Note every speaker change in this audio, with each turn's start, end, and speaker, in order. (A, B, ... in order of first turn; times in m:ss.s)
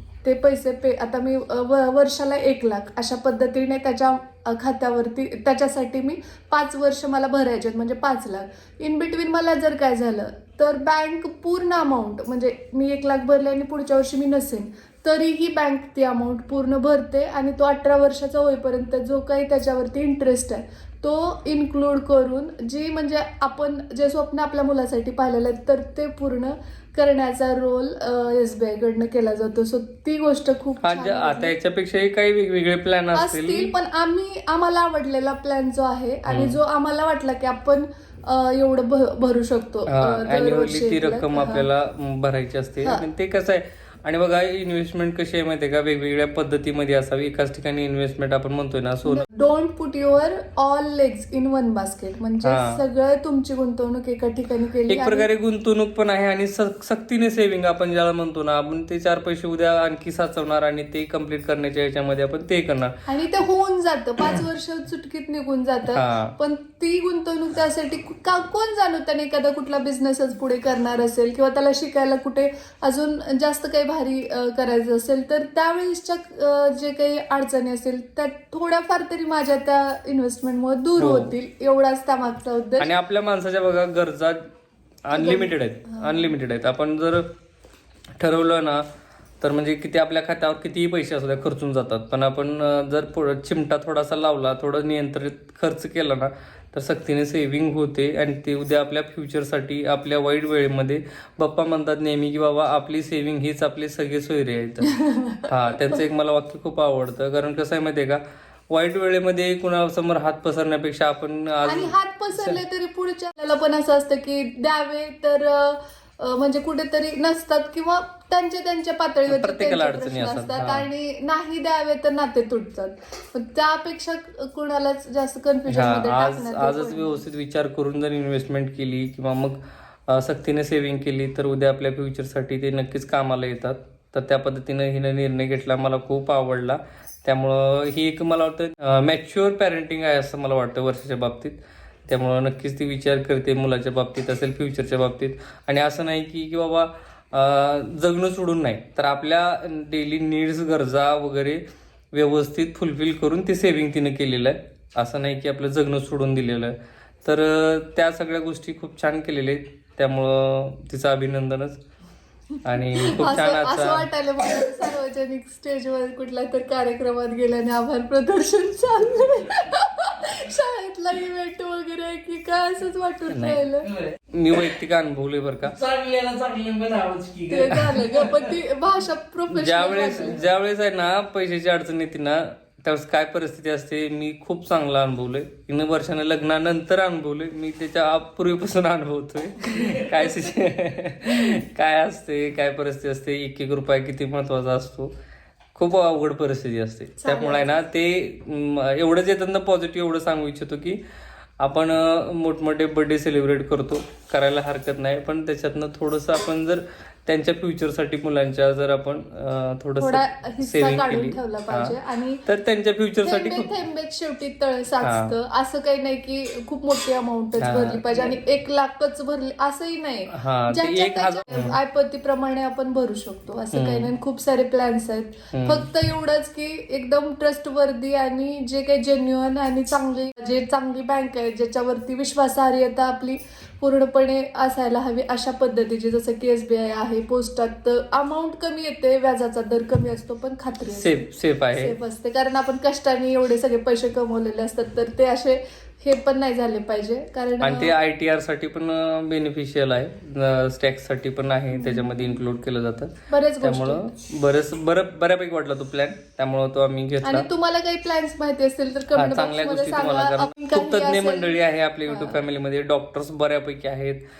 0:00.2-0:31.5 A
0:30.8-0:33.7 B
0:33.1-0:41.6 A
0:36.3-0:36.6 B
0:39.9-0:49.3 B
0:49.0-0:55.2 A
0:52.4-0:52.8 B
0:54.9-1:02.9 B
1:03.1-1:22.9 A
1:05.9-1:06.3 B
1:21.0-1:21.3 B
1:22.8-1:24.4 B
1:25.1-1:27.3 B
1:25.1-1:26.3 A
1:28.2-1:28.8 B
1:29.4-1:44.9 B
1:44.9-1:45.4 A
1:45.4-1:52.6 B
1:51.6-2:07.2 A
1:59.3-2:00.8 B
2:05.7-2:09.6 B
2:10.1-2:21.6 B
2:22.1-2:31.6 B
2:32.1-2:41.8 B
2:42.6-2:44.1 B
2:43.0-2:53.9 A
2:53.3-2:53.6 B
2:53.9-2:54.2 C
2:54.3-2:55.7 B
2:55.7-2:58.4 C
2:57.5-3:00.4 A
2:59.5-3:15.1 B
3:10.0-3:10.3 A
3:15.7-3:21.0 B
3:17.2-3:17.8 A
3:21.6-3:33.7 B
3:30.0-3:32.4 A
3:33.2-4:07.9 A
3:35.0-3:35.3 B
3:37.6-3:38.3 B
3:40.3-3:41.8 B
3:43.7-3:44.1 B
3:45.5-3:45.9 B
4:00.9-4:02.0 B
4:07.6-4:17.5 B
4:11.7-4:12.4 A
4:13.3-4:14.1 A
4:17.2-4:22.4 A
4:19.2-4:24.2 B